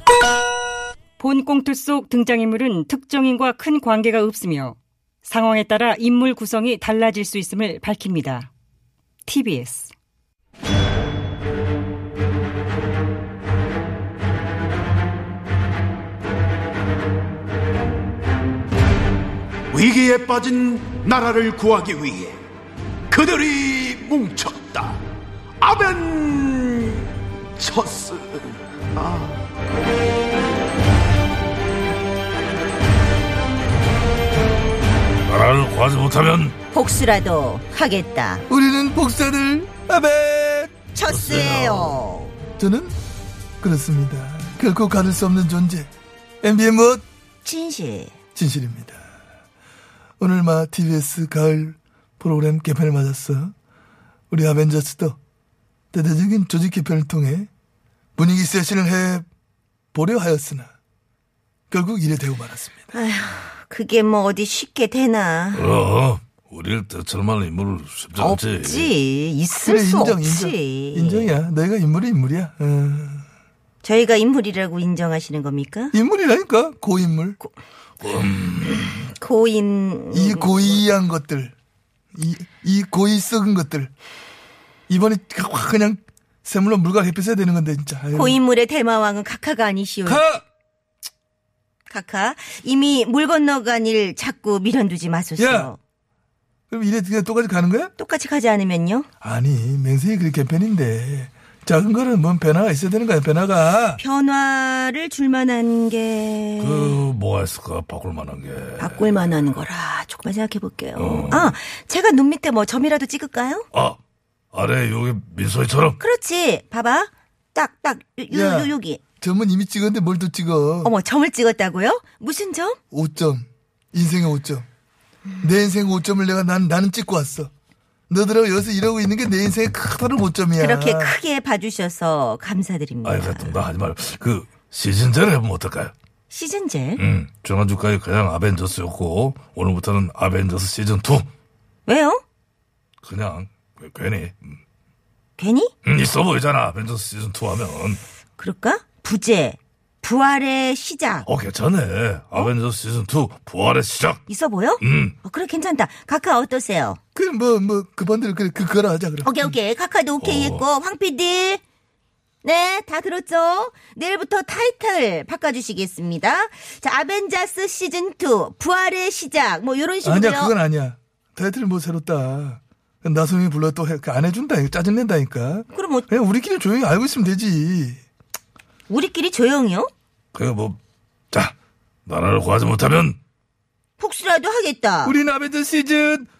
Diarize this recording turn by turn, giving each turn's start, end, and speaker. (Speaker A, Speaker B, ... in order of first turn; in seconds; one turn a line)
Speaker A: 1.2-8.5
Speaker A: 9.2-9.9
Speaker B: 19.7-22.4
Speaker B: 23.1-25.0
Speaker B: 25.6-29.4
Speaker C: 35.3-36.5
Speaker D: 36.7-38.4
Speaker E: 38.5-40.8
Speaker D: 40.9-42.3
Speaker C: 41.1-42.0
Speaker E: 42.6-42.9
Speaker E: 43.6-45.9
Speaker E: 46.4-47.0
Speaker D: 47.4-48.1
Speaker E: 48.3-49.0
Speaker E: 50.2-53.5
Speaker E: 54.3-55.2
Speaker E: 55.9-57.5
Speaker E: 58.2-59.2
Speaker E: 59.9-60.7
Speaker E: 61.7-62.9
Speaker D: 62.9-65.7
Speaker C: 65.5-68.9
Speaker D: 68.2-71.3
Speaker E: 69.6-73.2
Speaker D: 73.8-75.9
Speaker E: 75.9-77.4
Speaker C: 78.0-78.8
Speaker D: 78.6-80.8
Speaker E: 80.1-81.5
Speaker E: 82.1-83.9
Speaker E: 84.9-88.4
Speaker D: 88.1-90.2
Speaker E: 90.0-90.4
Speaker D: 91.9-95.8
Speaker E: 95.4-95.7
Speaker E: 96.7-97.9
Speaker D: 98.0-99.1
Speaker E: 99.2-104.0
Speaker D: 104.0-107.0
Speaker C: 106.6-109.0
Speaker D: 108.8-113.7
Speaker C: 111.0-111.5
Speaker C: 113.7-114.0
Speaker C: 114.5-116.0
Speaker D: 116.0-119.0
Speaker E: 118.3-120.9
Speaker D: 120.8-122.8
Speaker E: 122.9-124.7
Speaker E: 125.4-127.5
Speaker E: 128.1-131.2
Speaker D: 130.6-133.6
Speaker C: 133.0-135.9
Speaker D: 136.3-137.0
Speaker C: 137.0-141.3
Speaker D: 141.8-142.2
Speaker C: 143.0-144.6
Speaker D: 145.4-145.7
Speaker C: 145.8-148.0
Speaker D: 148.4-151.2
Speaker C: 151.2-154.2
Speaker D: 154.3-157.0
Speaker C: 154.8-155.2
Speaker E: 157.1-159.6
Speaker D: 159.2-161.6
Speaker C: 160.2-160.6
Speaker D: 162.4-170.5
Speaker E: 170.0-178.0
Speaker D: 175.7-176.1
Speaker D: 178.9-179.9
Speaker C: 180.3-180.8
Speaker C: 181.3-183.2
Speaker D: 184.0-185.2
Speaker E: 185.0-186.3